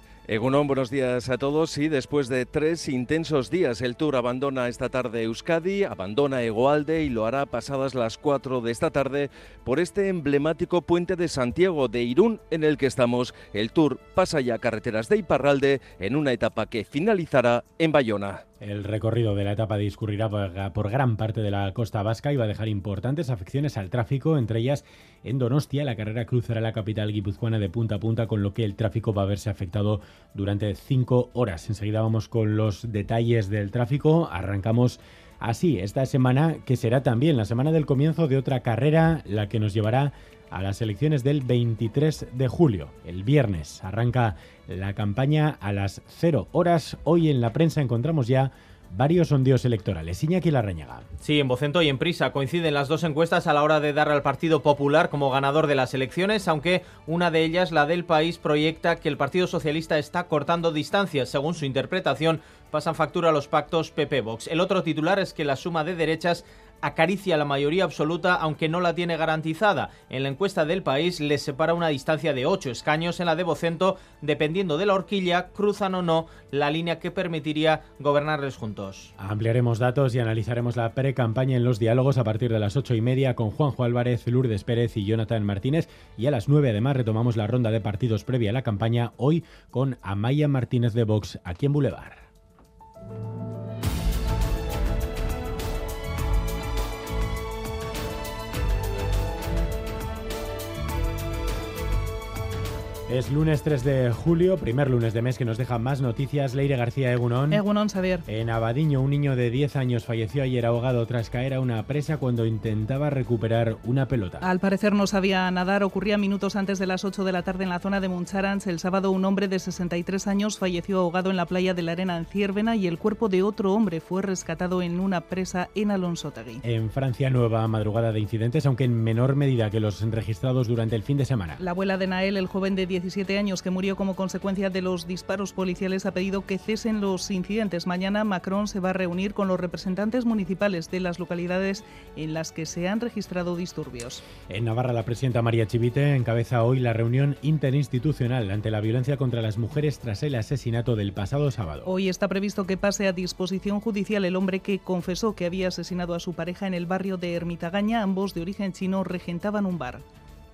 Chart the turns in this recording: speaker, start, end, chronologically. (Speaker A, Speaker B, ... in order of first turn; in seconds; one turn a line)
Speaker A: 0.3-18.4
Speaker B: 18.6-51.0
Speaker C: 51.2-79.1
Speaker B: 79.2-92.2
Speaker B: 103.1-107.6
Speaker D: 107.5-108.2
Speaker B: 108.3-114.5
Speaker D: 114.4-126.6
Speaker B: 126.6-131.6
Speaker D: 131.6-144.2
Speaker B: 144.5-151.9
Speaker D: 151.8-160.0